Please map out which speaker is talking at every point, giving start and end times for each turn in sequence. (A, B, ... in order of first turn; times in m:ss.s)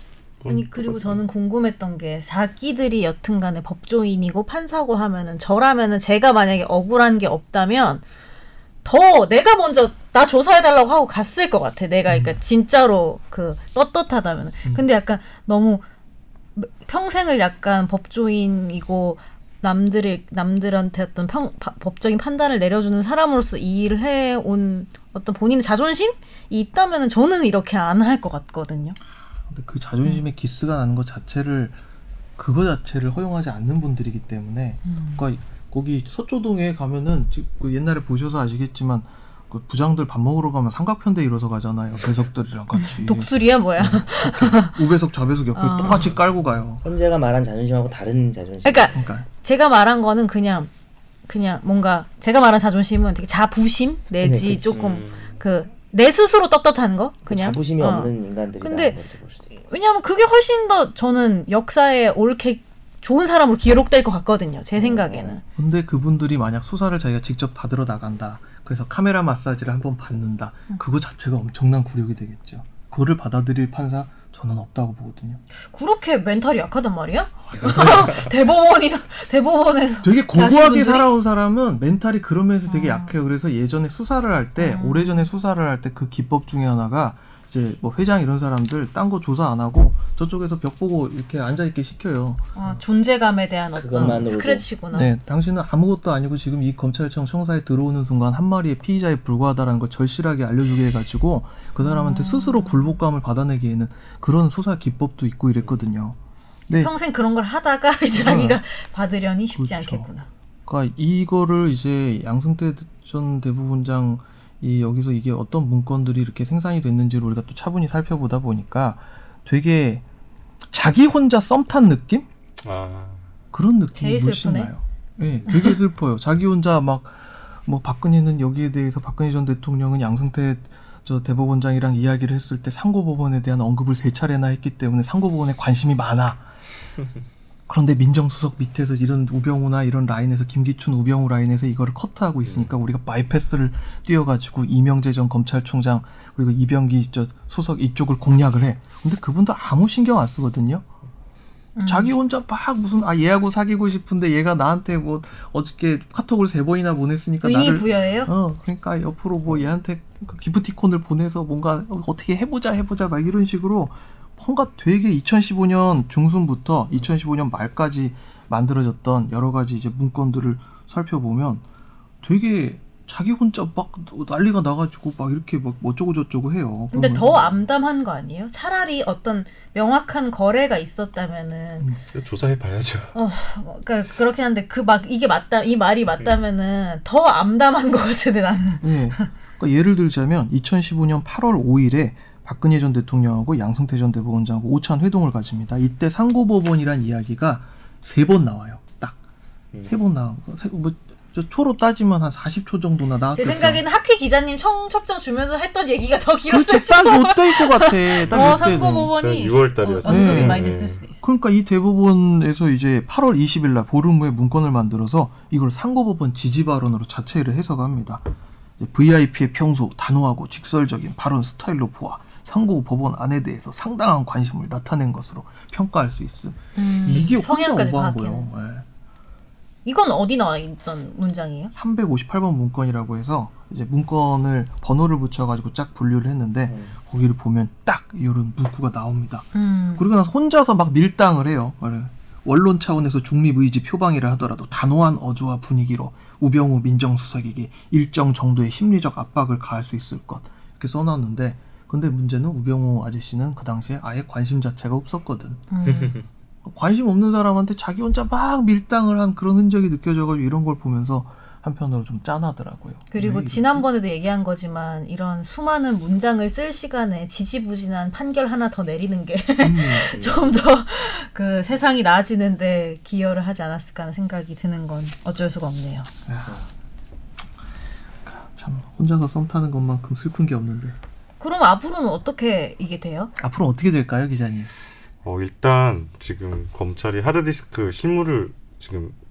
0:00.4-0:01.2 A
0:00.5-0:08.0 B
0:08.8-0:15.8 B
0:12.1-0:12.4 C
0:16.6-0:29.0 B
0:29.5-0:31.8 C
0:32.4-0:46.8 C
0:34.8-0:35.2 B
0:42.8-0:44.8 B
0:45.5-0:46.1 B
0:46.8-0:49.0 D
0:48.6-0:50.7 B
0:48.9-0:49.2 C
0:51.3-0:59.0 B
0:54.2-0:55.0 D
0:54.7-0:55.4 A
0:57.2-0:59.5 D
0:59.5-1:05.4 B
1:04.8-1:05.4 D
1:05.6-1:15.4 C
1:15.7-1:21.1 B
1:17.6-1:18.2 C
1:20.0-1:32.8 C
1:22.7-1:23.2 B
1:24.6-1:25.2 B
1:32.6-1:35.1 B
1:33.8-1:34.7 D
1:34.0-1:34.3 C
1:34.9-1:46.2 C
1:41.8-1:42.9 B
1:46.7-1:50.3 B
1:48.1-1:48.6 C
1:49.5-1:50.1 C
1:50.6-2:00.0 C
2:00.7-2:02.3 C
2:02.6-2:03.2 A
2:03.5-2:16.4 C
2:04.0-2:04.7 B
2:05.5-2:05.7 B
2:17.7-2:30.8 C
2:31.8-2:32.1 B
2:31.8-2:51.6 C
2:37.4-2:38.3 B
2:52.2-2:57.4 C
2:56.9-3:01.9 B
3:02.1-3:03.1 A
3:03.1-3:09.3 B
3:08.8-3:19.2 C
3:19.8-3:23.8 C
3:23.3-3:31.2 B
3:26.5-3:29.1 C
3:28.2-3:31.0 A
3:30.0-3:30.6 C
3:31.2-3:48.8 C
3:46.8-3:48.4 B
3:49.8-3:51.7 B
3:51.7-4:15.6 C
3:56.7-3:56.9 D
3:59.5-4:00.0 B
4:15.7-4:16.2 B
4:16.6-4:23.9 C
4:23.1-4:36.1 B
4:29.6-4:30.2 C
4:30.1-4:30.5 D
4:36.2-4:36.6 C
4:38.2-4:41.0 C
4:41.4-4:43.3 B
4:43.4-4:44.7 C
4:45.2-4:49.1 A